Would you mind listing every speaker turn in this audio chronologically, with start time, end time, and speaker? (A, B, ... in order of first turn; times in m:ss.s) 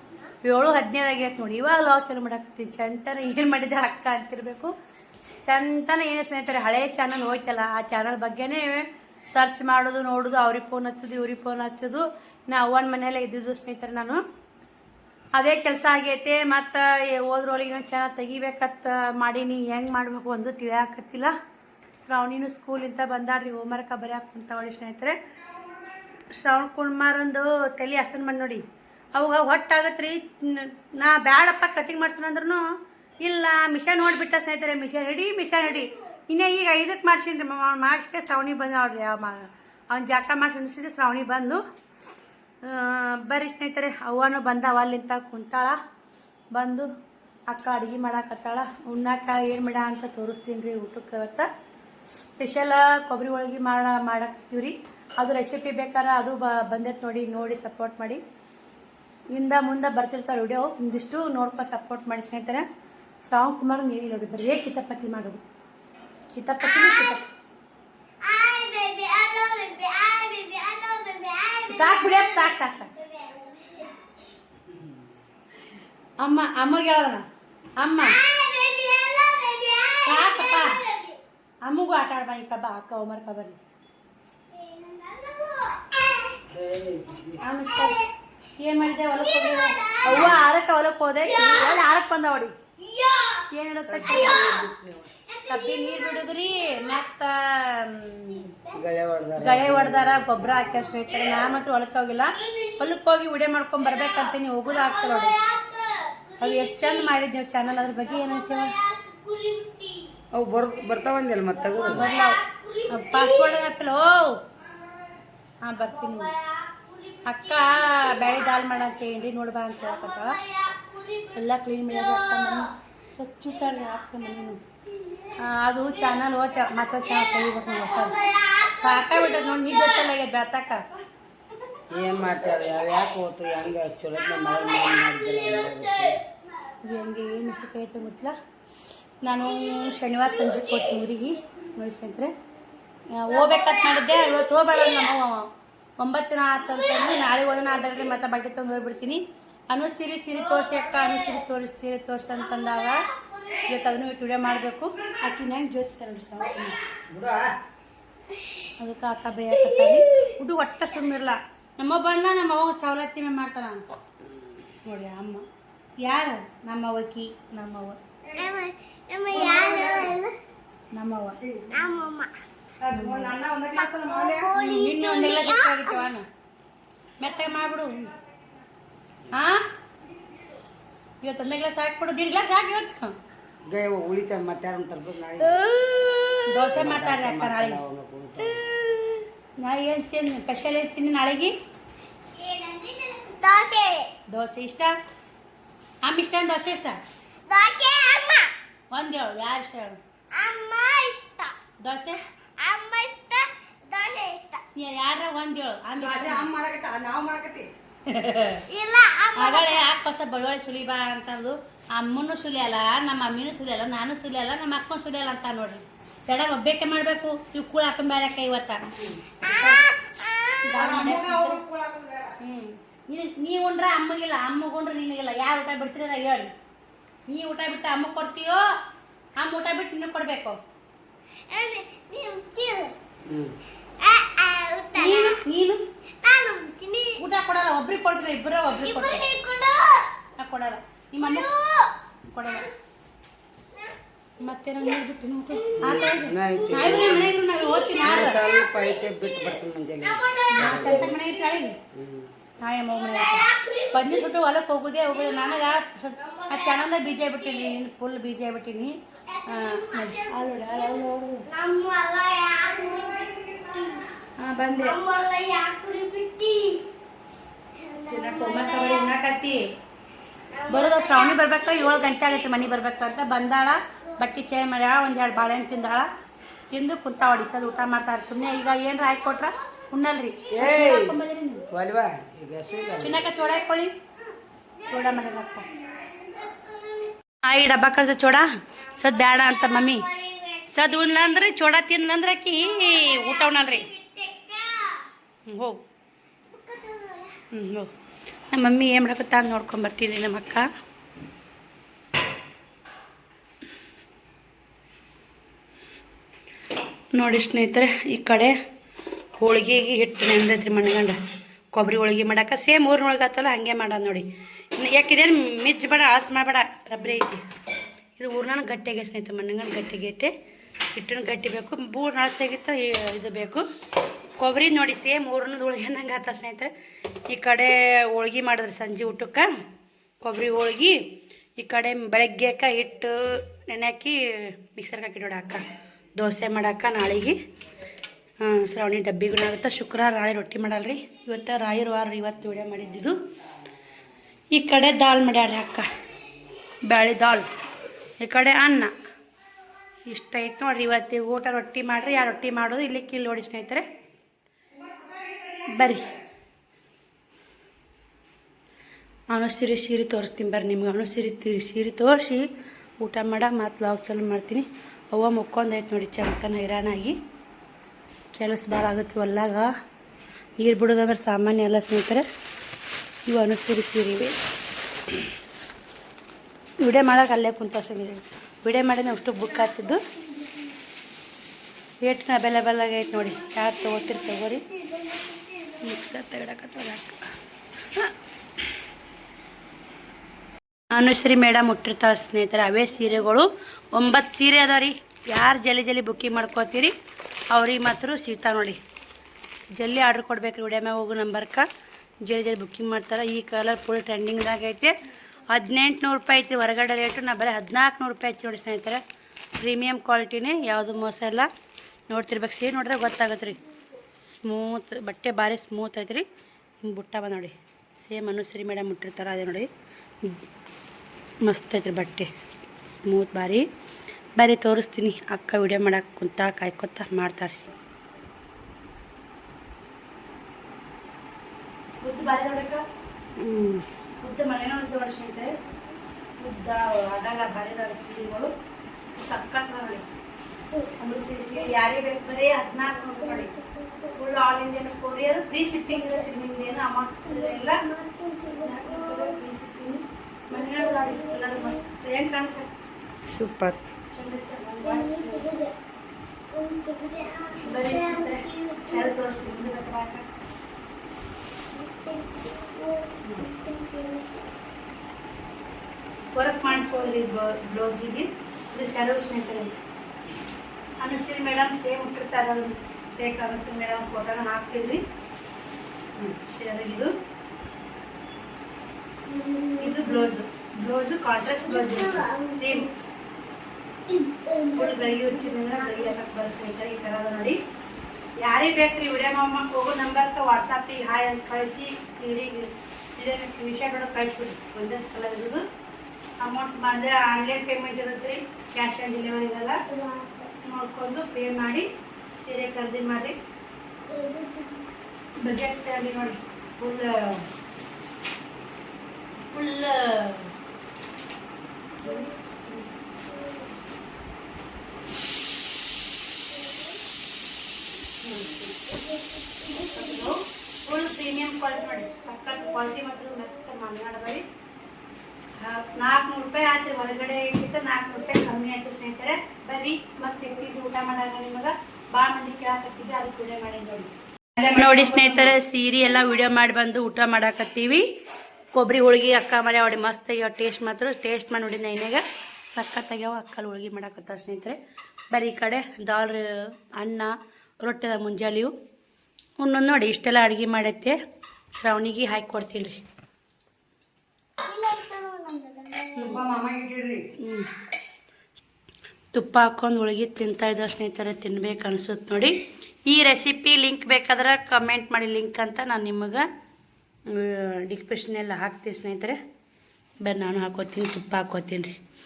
0:00.4-0:04.7 A
0:05.5-0:14.2 A
0:15.4-0:21.3 A
0:22.0-0:25.2 A
0:26.3-0:32.6 A
0:33.2-0:41.6 A
0:42.6-0:45.8 A
0:46.5-0:46.9 A
0:47.5-0:51.5 A
0:52.4-0:58.2 A
0:59.3-1:02.6 A
1:03.2-1:05.4 A
1:06.3-1:07.2 A
1:06.7-1:07.2 B
1:08.2-1:14.1 B
1:11.7-1:13.0 A
1:16.2-1:17.2 A
1:17.8-1:18.2 A
1:18.0-1:21.2 B
1:20.0-1:20.8 A
1:21.6-1:23.6 A
1:24.5-1:26.4 B
1:26.5-1:27.4 C
1:27.4-1:28.0 A
1:28.6-1:32.6 A
1:29.1-1:30.4 B
1:30.1-1:30.4 C
1:31.3-1:31.8 B
1:32.8-1:33.5 B
1:33.5-1:34.6 A
1:33.9-1:35.1 C
1:34.0-1:34.7 B
1:35.3-1:37.0 B
1:35.5-1:38.5 A
1:38.4-1:38.8 B
1:38.7-1:40.3 C
1:39.4-1:45.3 A
1:43.8-1:47.1 B
1:46.4-1:48.8 A
1:47.9-1:50.1 B
1:50.3-1:52.1 C
1:51.6-1:53.6 B
1:51.8-1:54.4 A
1:55.6-1:56.3 A
1:55.8-1:58.6 B
1:57.2-2:00.4 A
1:59.8-2:02.7 B
2:01.3-2:04.6 A
2:04.9-2:05.4 B
2:05.4-2:08.2 A
2:06.8-2:10.0 B
2:08.8-2:10.8 A
2:11.9-2:16.2 C
2:14.2-2:16.3 B
2:16.8-2:18.3 A
2:19.2-2:22.3 A
2:20.5-2:21.0 B
2:23.1-2:25.5 A
2:23.3-2:24.8 B
2:26.0-2:33.0 A
2:30.6-2:31.4 B
2:32.4-2:33.8 B
2:33.6-2:36.8 A
2:36.4-2:36.7 B
2:37.1-2:37.6 C
2:38.3-2:38.7 B
2:38.8-2:43.8 A
2:39.6-2:40.2 B
2:44.8-2:45.4 A
2:46.0-2:48.0 A
2:48.3-2:50.4 B
2:49.3-2:50.0 A
2:50.9-2:51.4 A
2:51.4-2:51.7 C
2:51.7-2:52.3 B
2:52.8-2:54.5 C
2:52.9-2:53.3 A
2:53.8-2:56.1 B
2:54.6-2:56.2 A
2:57.2-2:58.1 A
2:59.3-2:59.6 A
3:01.2-3:03.1 A
3:03.7-3:05.6 C
3:05.4-3:06.7 B
3:06.5-3:07.8 A
3:06.7-3:08.6 C
3:08.4-3:09.2 B
3:09.6-3:11.5 A
3:12.3-3:14.1 B
3:14.3-3:15.0 A
3:16.0-3:17.0 A
3:17.5-3:18.5 B
3:18.9-3:20.0 A
3:20.3-3:21.6 B
3:21.8-3:22.2 A
3:22.6-3:24.6 B
3:24.8-3:26.5 A
3:26.0-3:27.7 C
3:28.1-3:28.6 A
3:28.7-3:29.8 B
3:29.4-3:38.8 A
3:39.4-3:39.8 A
3:39.6-3:40.6 B
3:40.6-3:41.6 A
3:40.8-3:42.3 C
3:42.4-3:46.5 A
3:47.3-3:48.6 A
3:49.4-3:50.6 A
3:51.5-3:52.9 B
3:53.3-3:53.6 C
3:54.0-3:55.4 B
3:55.0-3:55.8 A
3:56.2-3:57.2 B
3:57.2-3:59.2 A
3:58.8-4:00.1 B
4:00.4-4:01.5 A
4:01.2-4:01.9 B
4:02.3-4:02.7 A
4:04.4-4:08.4 A
4:05.8-4:09.0 B
4:05.9-4:07.4 C
4:08.0-4:11.1 C
4:10.0-4:11.3 B
4:10.5-4:11.8 A
4:11.9-4:12.3 C
4:12.6-4:21.5 A
4:13.1-4:14.4 B
4:15.0-4:17.8 B
4:19.3-4:24.1 B
4:24.4-4:25.0 A
4:24.8-4:26.9 B
4:27.8-4:29.2 B
4:28.1-4:29.6 A
4:30.5-4:32.3 B
4:30.7-4:36.1 A
4:36.7-4:41.7 A
4:40.5-4:41.2 C
4:41.7-4:43.2 C
4:43.0-4:43.9 A
4:44.9-4:45.7 A
4:44.9-4:45.3 B
4:45.8-4:47.1 B
4:47.4-4:50.1 A
4:49.2-4:51.5 B
4:50.7-4:53.9 A
4:52.7-4:55.1 B
4:55.5-4:55.8 A
4:56.5-4:57.4 B
4:57.5-4:57.9 A
4:58.5-5:00.7 A
5:07.1-5:08.5 A
5:09.4-5:11.2 A
5:11.8-5:17.4 A
5:18.2-5:20.3 A
5:21.0-5:23.6 A
5:24.4-5:26.7 A
5:27.3-5:29.5 A
5:30.2-5:31.0 A
5:31.6-5:35.6 A
5:36.2-5:37.4 A
5:38.4-5:43.2 A
5:44.5-5:45.9 A
5:46.9-5:47.5 A
5:48.2-5:48.9 A
5:50.1-5:53.8 A
5:55.7-5:56.1 A
5:59.3-6:02.5 A
6:03.0-6:07.2 A
6:08.4-6:09.7 A
6:10.6-6:12.2 A
6:13.3-6:14.4 A
6:16.8-6:20.0 A
6:22.0-6:24.6 A
6:23.2-6:26.0 B
6:25.8-6:27.2 A
6:30.9-6:36.9 A
6:37.5-6:38.8 A
6:39.7-6:41.7 A
6:42.2-6:44.9 A
6:45.5-6:49.0 A
6:49.6-6:51.5 A
6:52.1-6:53.6 A
6:54.2-6:56.2 A
6:56.8-6:59.7 A
7:01.4-7:03.7 A
7:04.4-7:07.6 A
7:12.0-7:12.8 A
7:13.4-7:13.9 C
7:14.2-7:15.5 A
7:16.4-7:18.5 A
7:19.2-7:20.1 A
7:20.7-7:21.8 B
7:21.0-7:23.5 A
7:22.8-7:24.2 B
7:24.1-7:27.8 A
7:25.9-7:26.3 B
7:27.2-7:29.4 B
7:28.6-7:32.7 A
7:30.5-7:31.8 B
7:33.2-7:33.8 C
7:34.1-7:35.5 A
7:34.8-7:35.7 B
7:36.5-7:39.2 B
7:37.6-7:40.2 A
7:41.7-7:44.3 B
7:46.3-7:49.8 A
7:46.7-7:47.1 B
7:51.0-7:55.0 A
7:56.2-7:57.1 A
7:59.3-8:00.3 B
7:59.8-8:02.9 A
8:01.6-8:02.9 B
8:04.1-8:06.1 B
8:04.8-8:07.6 A
8:08.4-8:15.6 A
8:16.4-8:19.8 A
8:19.9-8:20.5 B
8:20.6-8:23.4 A
8:24.1-8:24.9 B
8:25.4-8:27.4 A
8:29.5-8:30.5 A
8:32.0-8:32.3 B
8:33.3-8:33.7 B
8:36.5-8:37.0 B
8:38.2-8:38.7 A
8:38.7-8:40.3 B
8:39.7-8:44.4 A
8:45.6-8:58.0 A
8:58.7-9:04.8 A
9:05.3-9:07.3 A
9:07.8-9:08.7 A
9:09.6-9:11.2 A
9:11.8-9:13.0 A
9:14.6-9:16.5 B
9:16.1-9:17.3 C
9:17.4-9:17.7 A
9:19.3-9:26.5 A
9:27.3-9:29.4 A
9:30.2-9:32.0 A